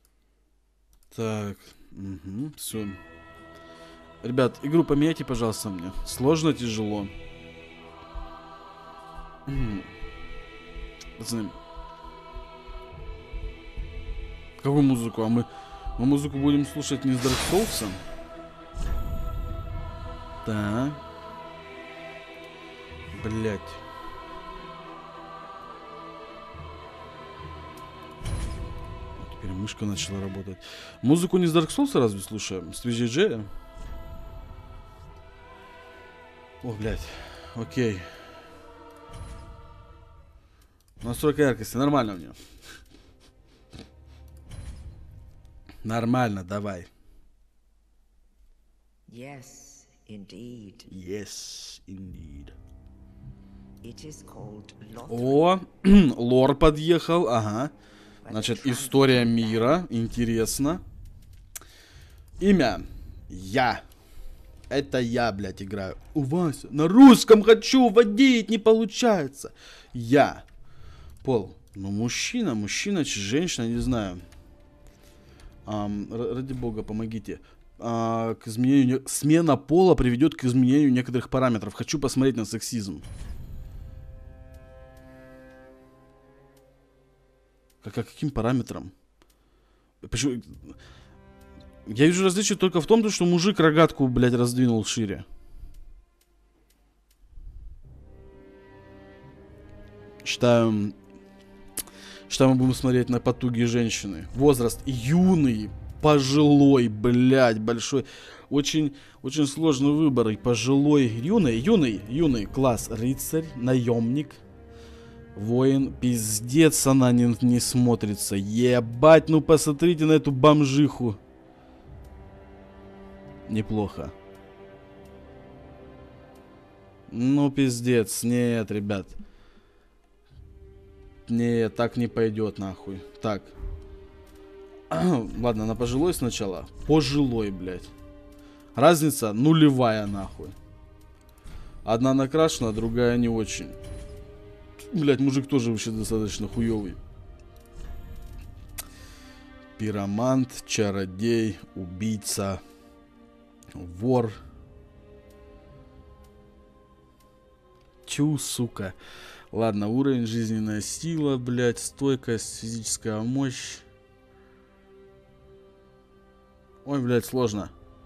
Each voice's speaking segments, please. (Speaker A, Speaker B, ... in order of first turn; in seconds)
Speaker A: 1.1-3.0, 4.2-7.1, 9.5-9.9, 11.2-11.6, 14.6-18.0, 20.4-21.0, 23.1-23.8, 29.2-33.5, 36.6-38.1, 41.0-42.4, 45.8-46.9, 50.9-52.5, 55.1-57.7, 58.3-60.8, 62.4-63.8, 64.7-70.4, 71.2-74.2, 75.7-83.0, 87.8-88.9, 90.0-90.6, 91.9-95.2, 100.2-101.0, 102.3-114.4, 115.3-121.2, 123.5-124.1, 127.1-129.1, 131.3-133.5, 134.9-137.9, 138.7-140.6, 141.8-143.8, 144.9-147.0, 149.8-152.6, 153.7-154.4, 158.1-158.9, 159.5-163.8, 166.8-167.7
Speaker B: 49.1-50.9, 53.8-55.4, 58.2-59.4